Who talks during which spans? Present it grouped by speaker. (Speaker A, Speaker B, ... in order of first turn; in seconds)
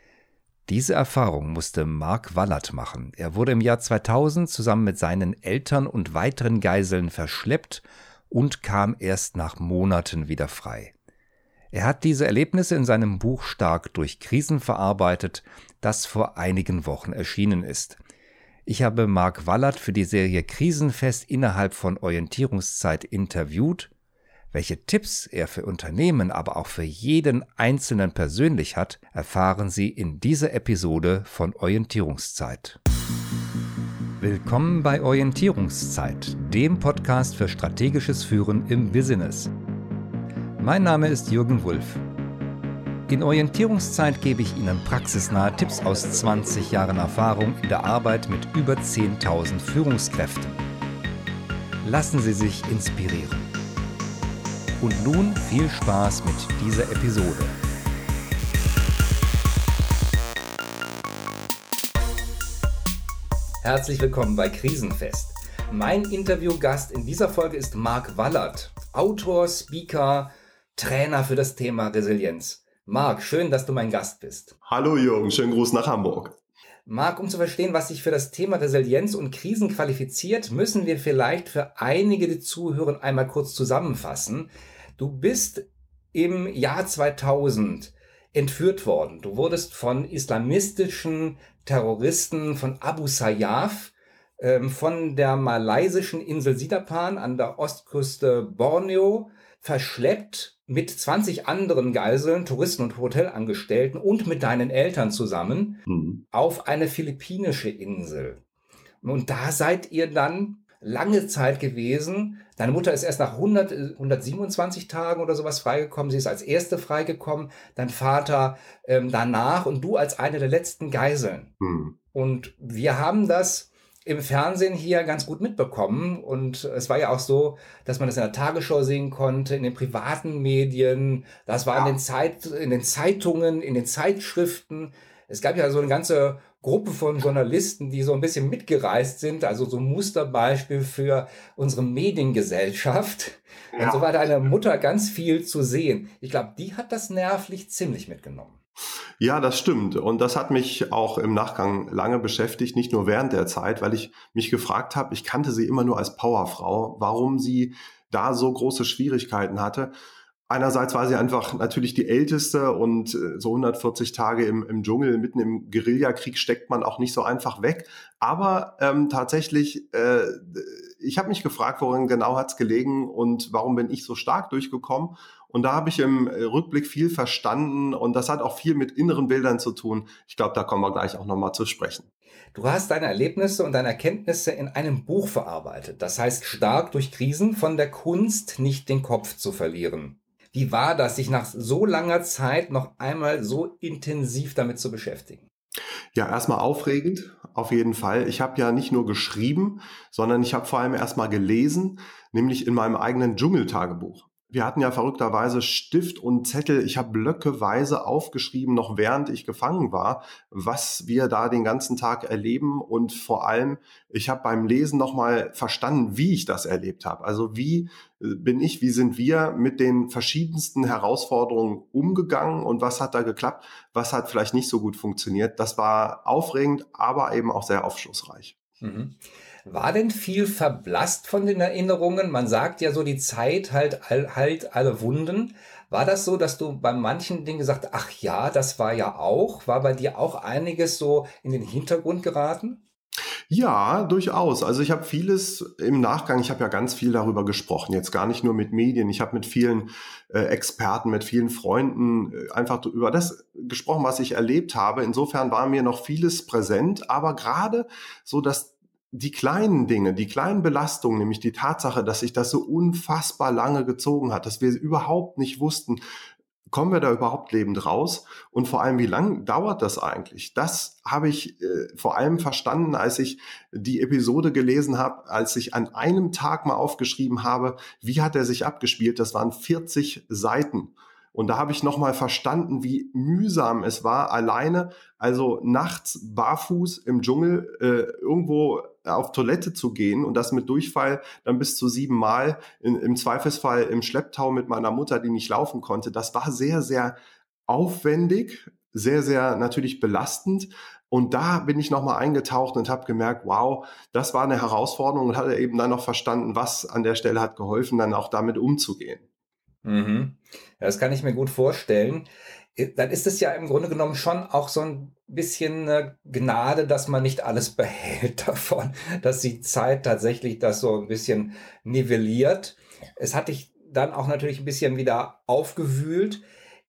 Speaker A: 0.7-10.9, 11.7-18.0, 18.6-23.9, 24.5-32.8, 34.2-39.5, 40.6-42.0, 43.1-50.6, 51.8-53.5, 54.8-57.5, 63.6-74.5, 76.8-108.4, 109.0-121.5, 122.1-148.6, 182.5-195.4, 228.8-242.8, 309.8-326.4
Speaker B: 74.7-76.3, 105.9-106.2, 121.6-121.9, 143.7-144.1, 149.2-159.9, 160.5-182.1, 196.1-228.5, 243.5-266.0, 266.7-297.1, 297.7-309.2